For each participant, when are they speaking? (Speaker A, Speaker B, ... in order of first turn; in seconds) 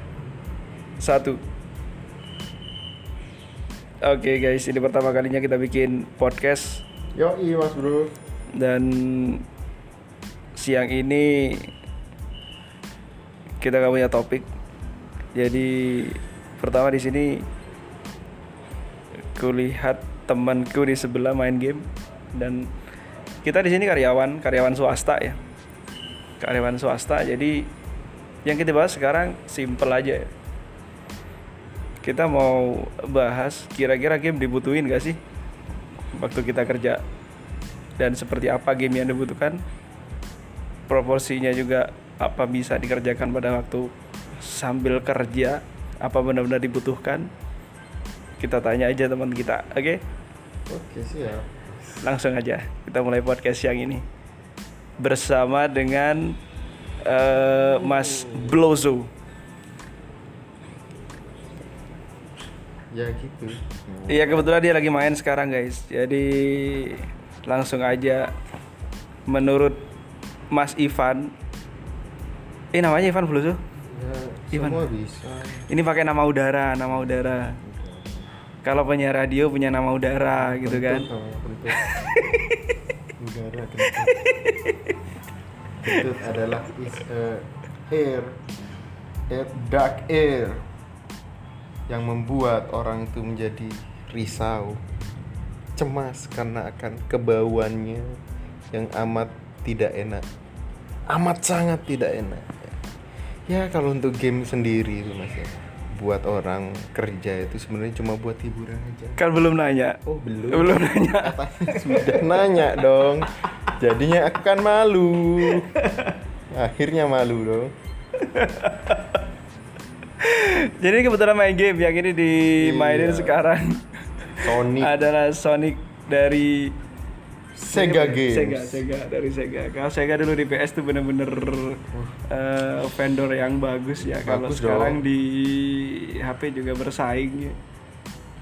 Speaker A: 1.0-1.4, 4.0-6.8, 8.5-9.4, 10.6-11.7, 13.6-14.5, 15.3-17.4, 19.3-22.7, 23.4-25.4, 26.4-27.7, 28.4-30.3, 32.0-35.2, 36.1-37.0, 38.0-39.6, 40.9-47.3, 48.4-50.0, 52.0-54.0, 55.0-56.4, 57.0-59.1, 64.1-68.3, 69.3-69.8, 70.5-71.3, 72.7-73.6, 74.5-74.9, 75.7-77.6, 78.6-81.1, 81.7-82.8, 83.8-85.0, 109.2-112.9, 115.5-116.2, 118.2-119.2, 120.2-126.7, 127.7-137.6
Speaker B: 7.2-8.2, 50.7-52.1, 57.6-58.6, 62.9-64.5, 73.8-75.7, 76.8-78.3, 80.3-82.1, 83.2-84.3, 85.8-88.4, 89.3-90.6, 91.9-94.8, 95.8-98.2, 98.7-100.2, 101.1-102.7, 103.5-109.2, 110.0-115.7, 116.5-117.7, 122.6-123.4, 124.4-125.0, 127.5-128.8, 134.2-135.0